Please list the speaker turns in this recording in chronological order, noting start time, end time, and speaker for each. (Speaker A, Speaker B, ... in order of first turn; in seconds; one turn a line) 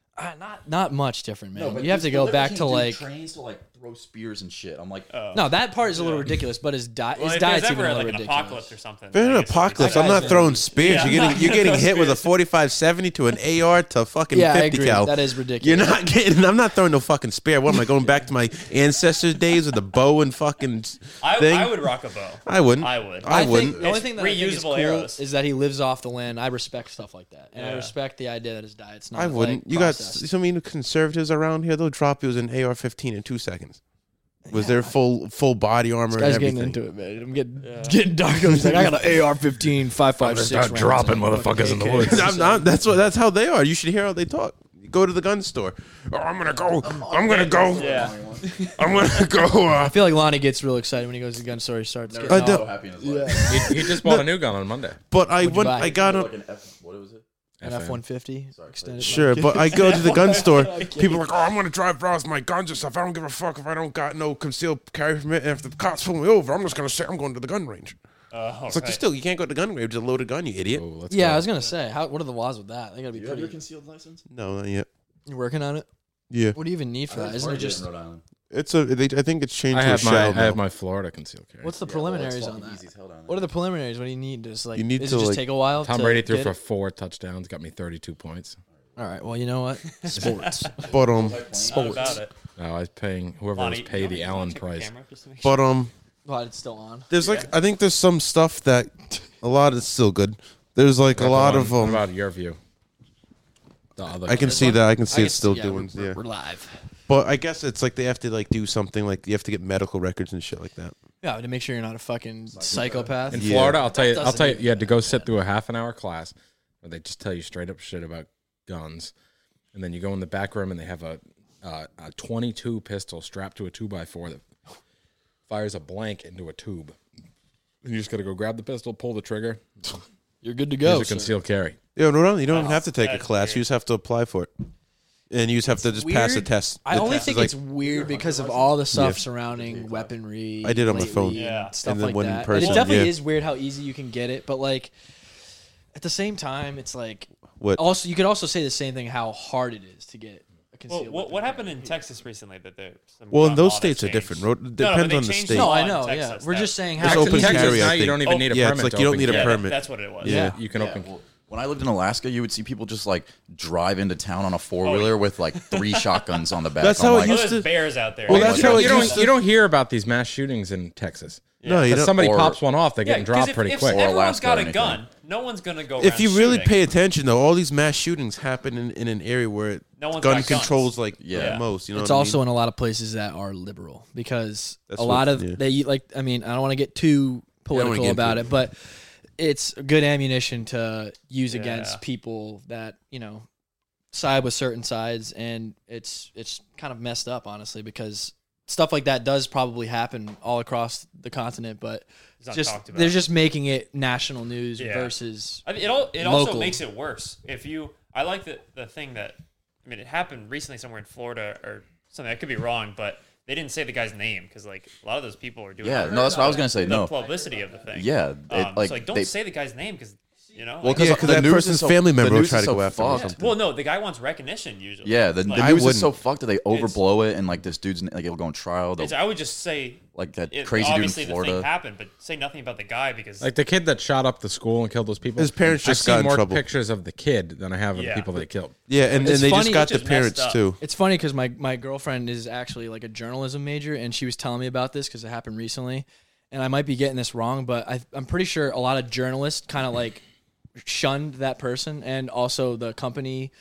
Speaker A: 0.1-3.0
Speaker B: 1.5-5.1
Speaker C: 5.1-6.3
Speaker A: 5.3-8.7
Speaker C: 7.2-12.3
Speaker D: 9.1-21.9
Speaker A: 9.8-11.5
Speaker A: 14.3-16.0
Speaker C: 21.2-25.2
Speaker D: 22.4-23.8
Speaker A: 23.3-30.2
Speaker B: 23.3-23.9
Speaker C: 27.5-27.9
Speaker D: 29.1-33.8
Speaker A: 34.5-34.9
Speaker D: 34.5-36.8
Speaker A: 36.1-42.7
Speaker C: 37.6-38.0
Speaker D: 38.4-39.0
Speaker E: 40.2-42.3
Speaker D: 42.0-48.1
Speaker B: 46.8-48.9
Speaker C: 47.7-48.7
Speaker D: 48.8-50.0
Speaker A: 49.8-53.9
Speaker B: 52.1-53.8
Speaker D: 52.3-52.7
Speaker E: 53.5-55.0
Speaker D: 53.9-54.2
Speaker D: 55.1-56.3
Speaker A: 55.4-56.0
Speaker B: 55.7-57.2
Speaker E: 57.6-58.0
Speaker A: 57.6-61.2
Speaker B: 58.5-59.5
Speaker D: 59.0-68.0
Speaker C: 59.7-61.1
Speaker C: 68.3-69.0
Speaker D: 68.7-70.8
Speaker E: 70.7-71.5
Speaker A: 71.1-73.6
Speaker B: 73.1-74.2
Speaker D: 74.3-74.9
Speaker A: 75.3-75.9
Speaker D: 76.3-76.6
Speaker A: 76.5-77.8
Speaker B: 77.1-78.2
Speaker D: 78.5-80.6
Speaker E: 79.7-81.7
Speaker A: 81.6-86.5
Speaker B: 81.8-83.5
Speaker D: 84.7-85.5
Speaker E: 85.8-88.6
Speaker A: 89.0-90.9
Speaker C: 90.0-90.7
Speaker D: 90.8-92.1
Speaker B: 90.8-92.2
Speaker C: 91.5-92.3
Speaker E: 92.6-94.9
Speaker C: 93.5-95.6
Speaker D: 95.4-95.9
Speaker A: 96.2-97.1
Speaker D: 97.1-102.0
Speaker C: 97.2-97.5
Speaker E: 101.1-102.6
Speaker E: 104.0-104.7
Speaker D: 104.2-106.2
Speaker A: 104.3-106.8
Speaker D: 107.1-110.9
Speaker A: 111.2-115.3
Speaker B: 112.5-113.5
Speaker E: 113.3-119.1
Speaker D: 113.3-113.8
Speaker E: 119.7-124.4
Speaker E: 125.5-127.0
Speaker E: 127.8-130.0
Speaker A: 130.4-131.3
Speaker E: 130.8-131.8
Speaker D: 131.9-134.5
Speaker C: 132.5-133.6
Speaker D: 135.3-137.6
Speaker A: 135.7-144.9
Speaker C: 137.0-137.2
Speaker B: 137.1-140.1
Speaker D: 138.9-139.2
Speaker D: 140.6-143.2
Speaker C: 141.3-141.8
Speaker C: 142.5-143.1
Speaker A: 145.9-152.0
Speaker D: 147.6-147.8
Speaker C: 150.9-156.9
Speaker D: 153.3-155.7
Speaker A: 155.5-157.9
Speaker D: 157.0-160.6
Speaker E: 157.0-159.6
Speaker C: 158.2-158.5
Speaker C: 159.2-160.5
Speaker E: 160.2-161.1
Speaker A: 160.2-160.6
Speaker B: 160.7-167.6
Speaker C: 164.8-166.4
Speaker D: 166.8-167.7
Speaker C: 167.2-169.2
Speaker B: 168.3-169.2
Speaker D: 168.3-169.3
Speaker E: 168.3-174.0
Speaker C: 171.6-171.9
Speaker D: 171.6-172.2
Speaker B: 172.0-172.6
Speaker C: 173.0-176.8
Speaker B: 173.9-175.0
Speaker D: 176.0-182.4
Speaker C: 180.0-181.6
Speaker B: 181.2-181.6
Speaker A: 181.9-193.4
Speaker D: 184.9-185.6
Speaker D: 187.7-188.5
Speaker C: 191.5-192.0
Speaker A: 194.1-206.8
Speaker C: 202.4-203.3
Speaker C: 204.8-205.1
Speaker C: 205.6-221.4
Speaker B: 215.8-217.1
Speaker A: 215.9-218.1
Speaker B: 217.9-219.3
Speaker A: 220.4-221.4
Speaker B: 220.8-223.6
Speaker D: 220.9-223.4
Speaker A: 223.1-223.3
Speaker C: 223.1-225.8
Speaker B: 225.0-229.2
Speaker D: 225.6-226.2
Speaker C: 226.7-227.0
Speaker C: 229.0-233.5
Speaker B: 230.1-231.7
Speaker E: 233.4-238.7
Speaker D: 235.4-236.6
Speaker C: 237.9-238.4
Speaker D: 238.9-240.8
Speaker C: 239.1-240.6
Speaker A: 239.2-239.9
Speaker A: 240.8-250.2
Speaker A: 250.8-253.5